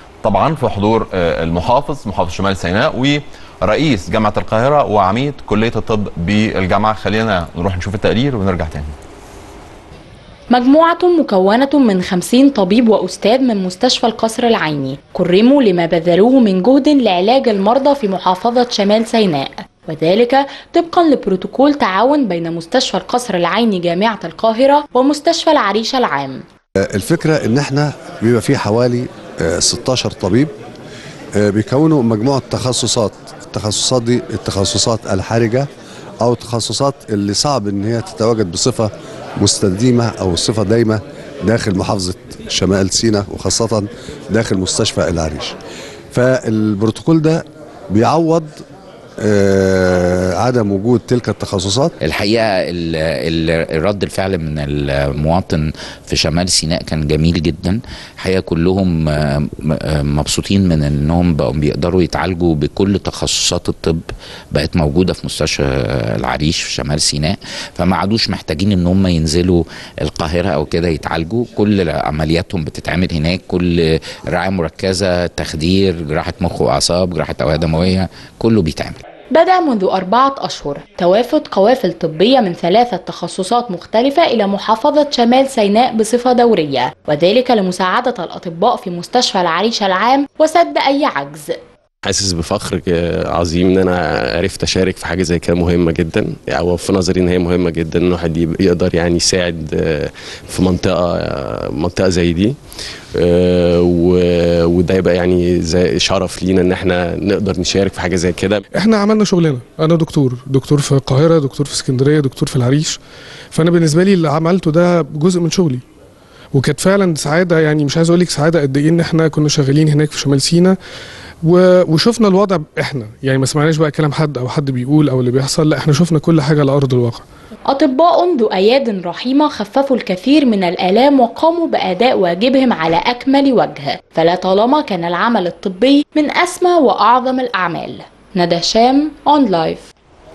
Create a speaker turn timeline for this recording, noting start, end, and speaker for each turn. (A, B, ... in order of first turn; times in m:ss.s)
0:00.2-0:08.9 A
0:10.5-0:26.4 B
0:26.9-0:30.5 C
0:31.4-0:35.7 C
0:36.2-0:45.5 C
0:46.1-0:48.6 C
0:49.2-0:51.9 C
0:52.0-1:19.0 D
1:19.3-1:31.5 B
1:32.0-1:42.6 E
1:43.1-1:48.6 E
1:48.7-1:53.0 F
1:53.5-1:55.8 F
1:56.5-2:00.8 F
2:01.4-2:07.2 F
2:07.7-2:19.9 B